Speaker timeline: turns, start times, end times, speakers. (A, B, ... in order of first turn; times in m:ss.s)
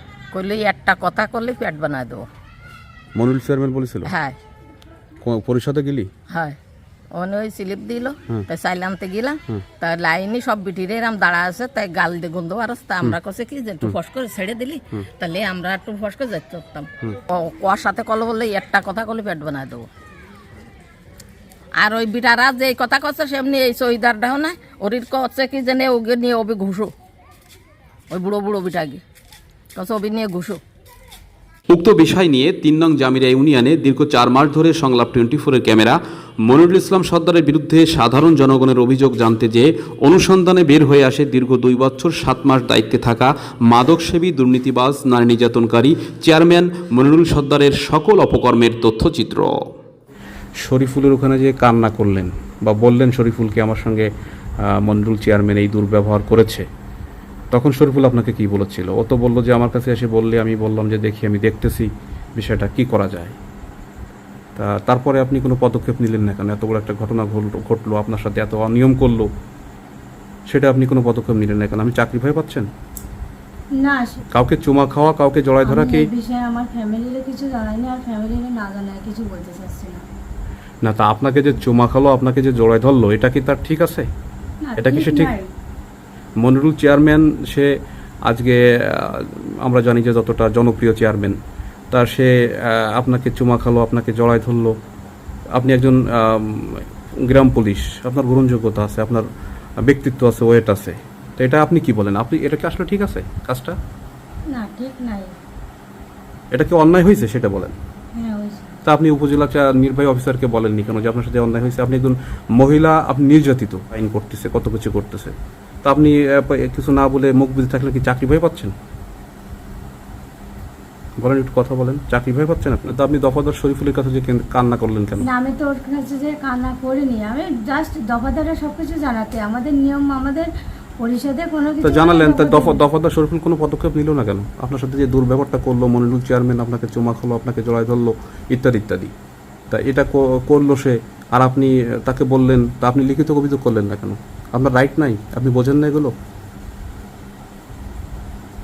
0:00.3-0:02.2 A
0:03.2-0:04.1 B
0:05.2-0:06.1 B
0:07.1-0:16.7 A
0:17.3-0:19.8 A
0:21.8-0:26.9 A
0:28.1-0:29.0 A
0:29.8-0:30.6 A
0:31.7-0:49.5 C
0:50.6-0:54.1 B
0:54.7-0:56.6 B
0:57.5-1:01.9 B
1:02.4-1:03.3 B
1:04.6-1:09.3 B
1:10.5-1:12.7 B
1:13.8-1:14.2 D
1:14.3-1:16.1 B
1:15.6-1:20.1 D
1:20.8-1:24.1 B
1:24.6-1:25.5 D
1:24.8-1:25.3 B
1:26.4-1:27.7 B
1:28.2-1:31.4 B
1:31.9-1:34.8 B
1:35.5-1:39.2 B
1:39.8-1:43.8 B
1:44.5-1:45.3 D
1:46.5-1:47.8 B
1:48.1-1:48.7 D
1:48.8-1:58.7 B
2:01.2-2:05.3 B
2:05.2-2:12.8 D
2:11.8-2:19.1 B
2:19.7-2:26.1 B